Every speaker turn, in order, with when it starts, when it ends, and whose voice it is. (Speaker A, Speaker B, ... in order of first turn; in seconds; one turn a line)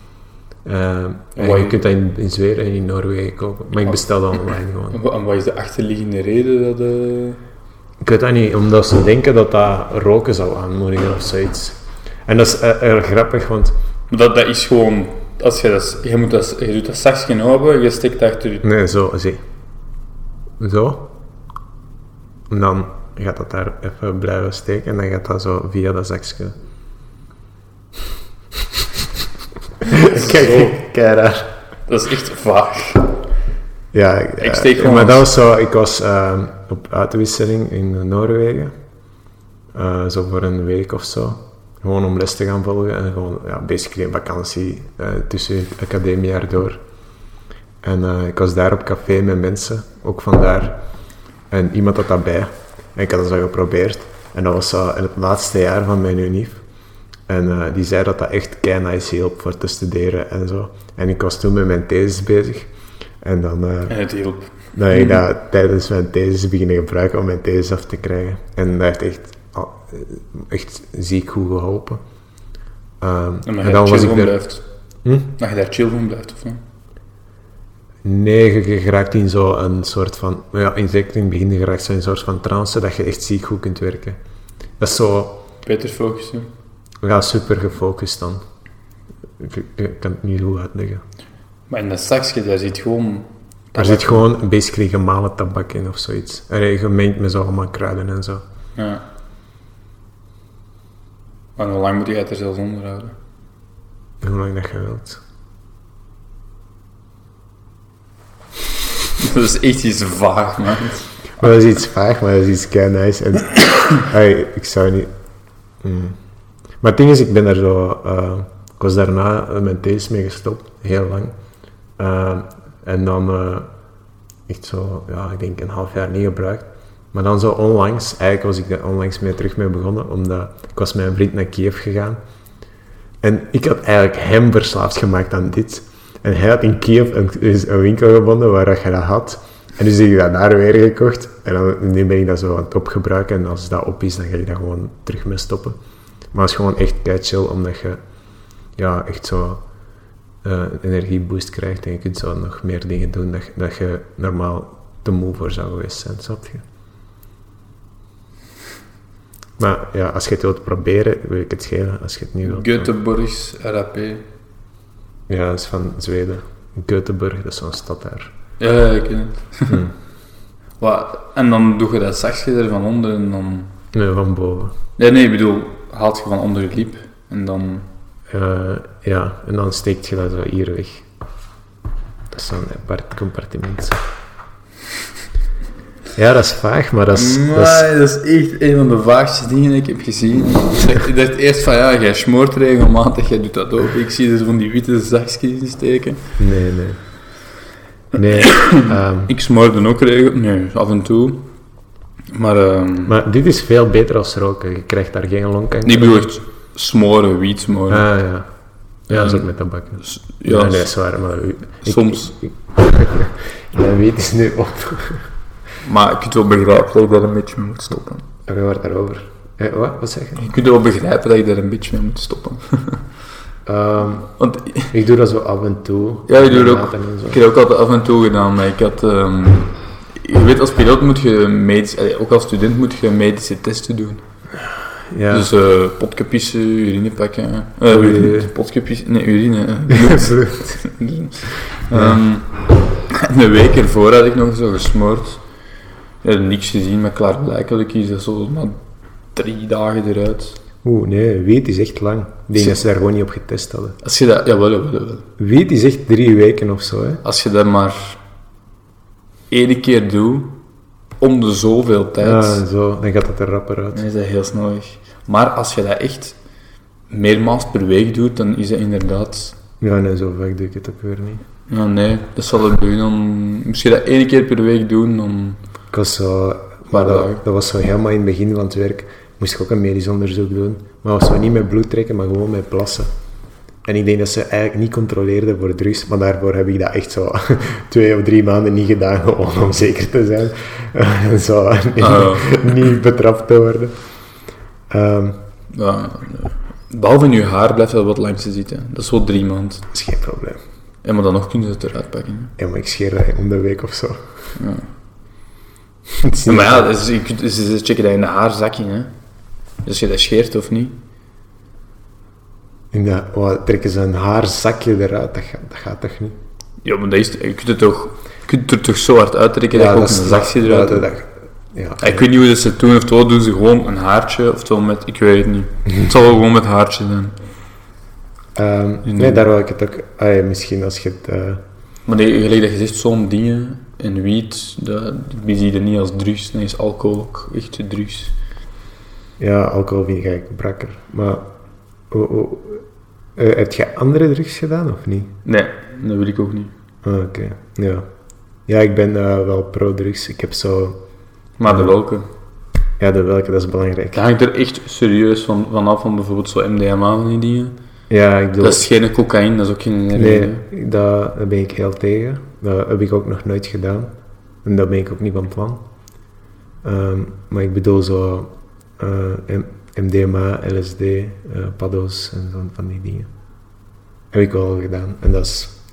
Speaker A: 0.6-5.0
Speaker B: 1.4-1.8
Speaker B: 4.9-7.4
Speaker A: 8.0-13.7
Speaker B: 14.1-18.7
Speaker A: 18.6-19.4
Speaker A: 20.6-21.1
Speaker A: 22.5-26.6
Speaker A: 29.8-31.5
Speaker B: 30.1-30.8
Speaker B: 31.9-33.1
Speaker A: 33.9-38.7
Speaker B: 34.4-35.3
Speaker A: 39.7-46.8
Speaker A: 47.8-50.8
Speaker A: 51.5-56.6
Speaker A: 57.3-62.7
Speaker A: 63.2-64.0
Speaker B: 63.9-65.2
Speaker A: 64.7-72.0
Speaker A: 73.0-74.4
Speaker B: 73.5-74.6
Speaker A: 75.0-75.3
Speaker B: 75.4-76.6
Speaker A: 78.0-84.2
Speaker A: 84.8-85.4
Speaker B: 85.6-86.5
Speaker A: 87.0-88.4
Speaker A: 89.4-91.0
Speaker B: 91.7-94.2
Speaker A: 93.8-98.4
Speaker B: 98.8-99.0
Speaker B: 101.6-103.2
Speaker A: 104.2-105.2
Speaker B: 109.2-111.1
Speaker A: 111.4-115.1
Speaker A: 115.8-116.2
Speaker A: 116.8-121.3
Speaker A: 122.0-123.7
Speaker A: 124.5-132.2
Speaker A: 133.2-145.8
Speaker A: 146.3-148.0
Speaker A: 148.8-149.6
Speaker A: 150.4-156.6
Speaker A: 159.6-162.9
Speaker B: 162.4-164.2
Speaker A: 165.3-168.3
Speaker B: 168.6-169.8
Speaker A: 169.7-169.9
Speaker B: 170.8-173.7
Speaker A: 173.9-174.8
Speaker B: 175.0-177.9
Speaker A: 178.3-181.1
Speaker A: 182.3-184.0
Speaker A: 186.2-187.9
Speaker B: 187.1-196.2
Speaker A: 196.4-197.0
Speaker A: 198.1-199.3
Speaker B: 198.4-201.5
Speaker B: 202.3-203.2
Speaker A: 203.1-206.3
Speaker B: 205.8-208.1
Speaker A: 207.9-208.5
Speaker A: 209.1-215.3
Speaker B: 209.1-209.5
Speaker B: 210.0-210.9
Speaker B: 211.8-212.3
Speaker B: 215.8-218.2
Speaker A: 218.5-220.5
Speaker B: 220.4-223.0
Speaker A: 223.7-224.3
Speaker B: 224.4-224.9
Speaker A: 224.9-227.4
Speaker B: 226.3-234.2
Speaker A: 235.1-235.5
Speaker B: 235.3-242.5
Speaker A: 237.9-238.5
Speaker A: 239.9-240.8
Speaker A: 241.9-242.2
Speaker B: 243.1-245.4
Speaker B: 246.2-248.8
Speaker B: 249.3-250.6
Speaker A: 250.8-254.0
Speaker B: 254.0-255.3
Speaker A: 255.4-257.2
Speaker B: 257.2-258.2
Speaker B: 259.5-260.5
Speaker B: 261.2-262.6
Speaker A: 262.2-264.0
Speaker B: 263.9-266.4
Speaker B: 267.1-269.6
Speaker A: 269.8-271.4
Speaker B: 271.7-275.6
Speaker A: 275.9-283.1
Speaker B: 276.9-277.4
Speaker A: 283.8-293.9
Speaker B: 292.0-292.5
Speaker A: 294.9-295.4
Speaker B: 295.7-299.9
Speaker A: 299.9-300.6
Speaker B: 301.0-302.5
Speaker A: 302.6-304.3
Speaker B: 304.6-304.9
Speaker A: 306.2-307.0
Speaker B: 306.4-309.1
Speaker B: 309.8-310.9
Speaker A: 312.9-316.4
Speaker B: 316.8-321.1
Speaker A: 319.7-322.2
Speaker B: 322.0-327.4
Speaker A: 328.6-331.6
Speaker B: 329.1-329.4
Speaker B: 332.1-338.4
Speaker A: 339.4-341.5
Speaker A: 342.1-342.8
Speaker A: 343.4-345.3
Speaker B: 345.4-346.7
Speaker A: 347.0-348.1
Speaker A: 348.7-351.0
Speaker B: 351.6-352.3
Speaker A: 351.7-351.9
Speaker A: 353.0-354.2
Speaker B: 354.1-357.7
Speaker A: 358.1-358.8
Speaker B: 358.6-360.6
Speaker A: 360.1-364.1
Speaker A: 364.6-365.8
Speaker A: 366.8-373.3
Speaker A: 374.3-375.8